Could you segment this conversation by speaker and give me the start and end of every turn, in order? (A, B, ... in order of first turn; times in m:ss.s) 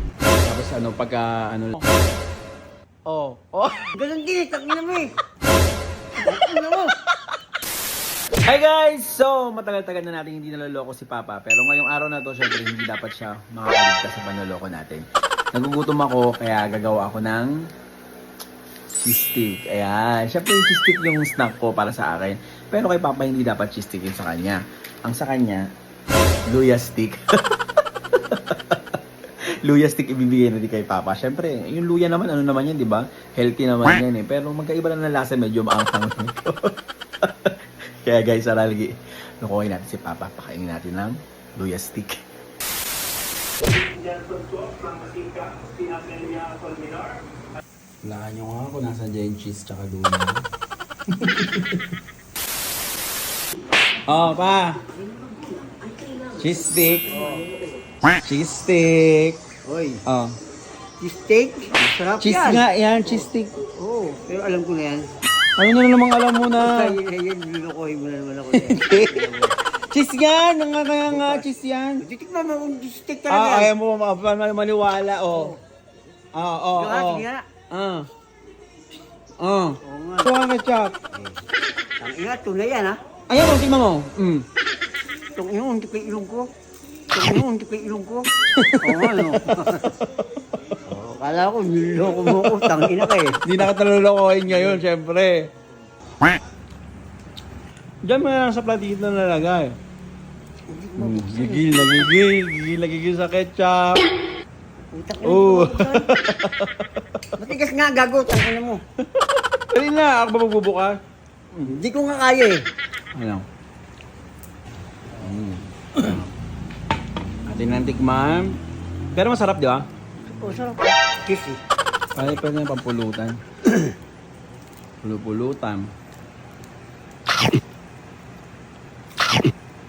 0:00.4-0:01.9 A
0:03.1-0:03.9 A
0:03.9-0:05.1 B
0:06.2-0:06.9 B
0:08.4-0:17.5 A
0:19.0-0:25.6 A
0:26.5-0:27.4 A
0:28.2-0:28.8 A
0:29.6-0:42.2 A
0:43.6-0:47.2 A
0:48.0-0:50.4 A
0:51.1-0:51.9 A
0:54.1-0:54.8 A
0:54.9-0:56.4 B
0:56.4-0:57.4 A
0:57.1-0:57.7 B
0:58.2-0:59.4 A
0:59.6-1:00.0 B
1:00.0-1:00.4 A
1:01.0-1:05.1 B
1:02.2-1:03.6 A
1:05.6-1:07.0 A
1:06.6-1:09.6 B
1:08.5-1:09.4 A
1:09.9-1:12.0 A
1:11.1-1:11.4 B
1:12.0-1:13.7 B
1:13.3-1:15.5 A
1:15.3-1:15.6 B
1:16.3-1:18.1 A
1:16.8-1:17.4 B
1:19.4-1:21.0 A
1:19.8-1:20.3 B
1:22.0-1:23.0 B
1:23.3-1:24.5 A
1:25.3-1:26.5 B
1:27.1-1:28.3 B
1:28.6-1:29.8 A
1:28.8-1:29.9 B
1:30.9-1:33.4 B
1:32.2-1:35.5 A
1:38.0-1:39.8 A
1:40.7-1:42.1 B
1:41.0-1:44.1 A
1:44.9-1:46.1 B
1:45.2-1:47.2 A
1:47.4-1:48.8 B
1:49.2-1:51.0 A
1:51.6-1:52.6 B
1:53.1-1:53.4 A
1:55.1-1:56.3 A
1:57.5-1:58.6 A
1:59.1-1:59.8 A
2:00.3-2:01.6 B
2:02.1-2:03.4 A
2:05.0-2:05.9 A